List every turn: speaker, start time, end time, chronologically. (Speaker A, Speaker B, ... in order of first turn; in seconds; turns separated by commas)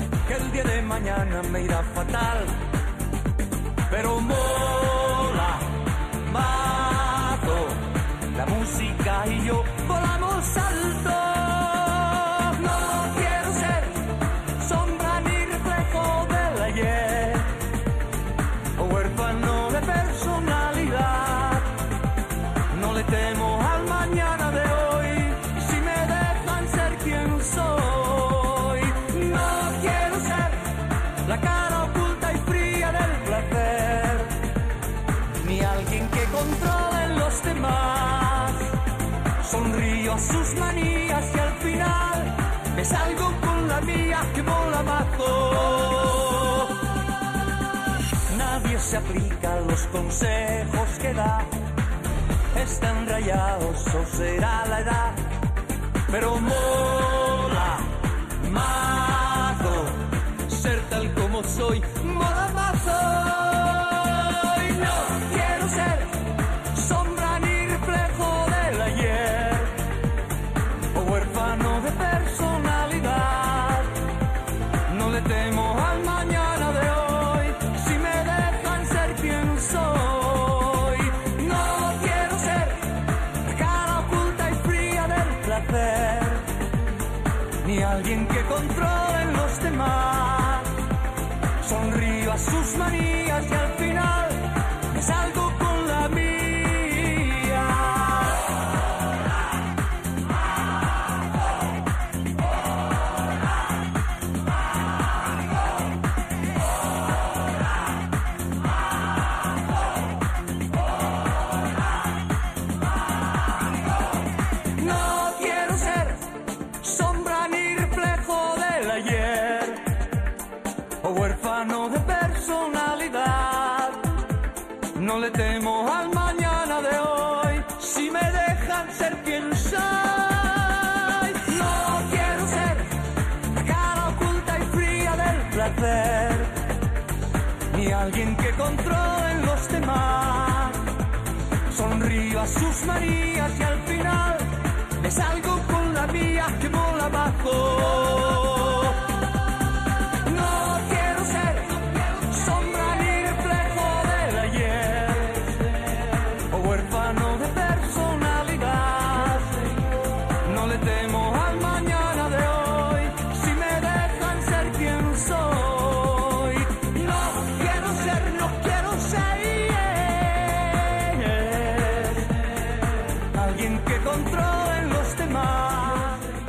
Speaker A: 0.3-2.6, Speaker A: 3.9-5.7, Speaker A: 6.3-14.0, Speaker A: 14.6-17.5, Speaker A: 18.8-21.7, Speaker A: 22.7-30.6, Speaker A: 31.2-34.3, Speaker A: 35.4-38.7, Speaker A: 39.4-46.7, Speaker A: 48.3-51.5, Speaker A: 52.5-55.2, Speaker A: 56.1-66.2, Speaker A: 66.7-69.8, Speaker A: 70.9-73.9, Speaker A: 74.9-82.8, Speaker A: 83.4-86.5, Speaker A: 87.6-90.7, Speaker A: 91.6-98.3, Speaker A: 114.8-116.2, Speaker A: 116.8-119.8, Speaker A: 121.0-124.0, Speaker A: 125.0-132.9, Speaker A: 133.6-136.6, Speaker A: 137.7-140.8, Speaker A: 141.7-144.5, Speaker A: 145.0-149.0, Speaker A: 150.3-155.4, Speaker A: 156.5-159.5, Speaker A: 160.4-172.2, Speaker A: 173.3-176.3